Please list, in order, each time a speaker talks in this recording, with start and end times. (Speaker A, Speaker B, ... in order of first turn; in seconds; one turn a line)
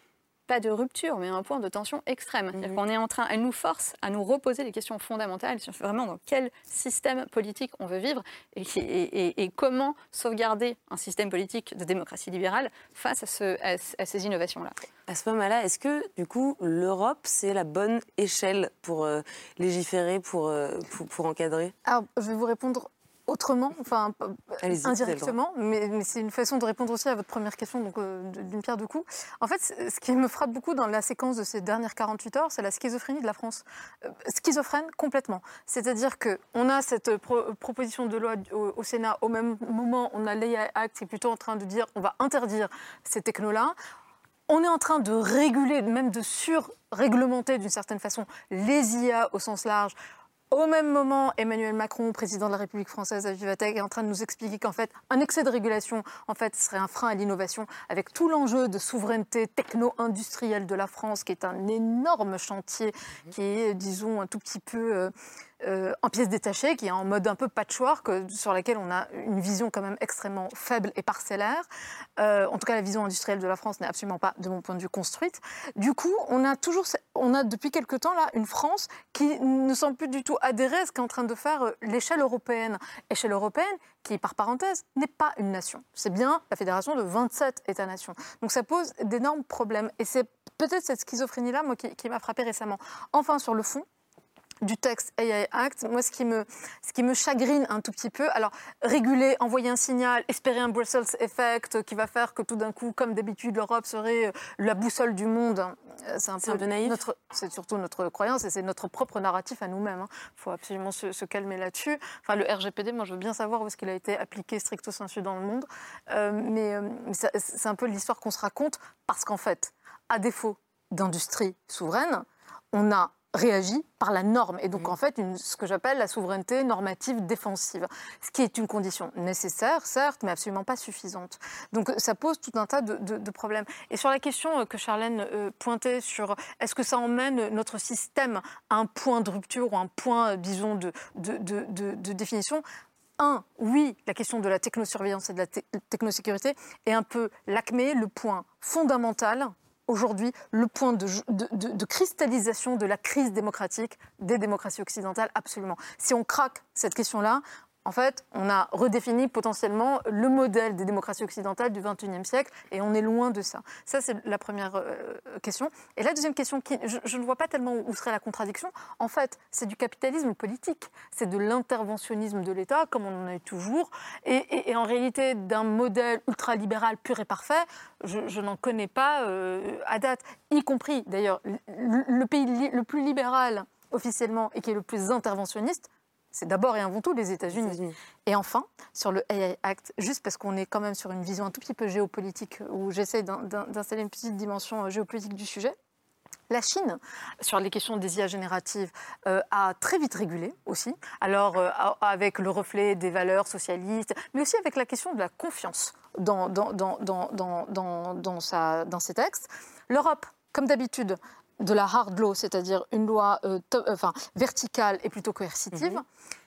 Speaker A: 0.5-14.7
Speaker B: 2.5-2.8
Speaker B: 15.1-21.7
Speaker C: 21.8-43.8
Speaker B: 24.6-25.4
Speaker C: 44.5-49.9
Speaker C: 50.5-71.7
Speaker C: 72.2-93.8
Speaker C: 94.6-142.6
Speaker B: 106.4-107.0
Speaker C: 143.2-195.7
Speaker B: 187.5-187.9
Speaker C: 196.5-216.0
Speaker B: 215.7-216.0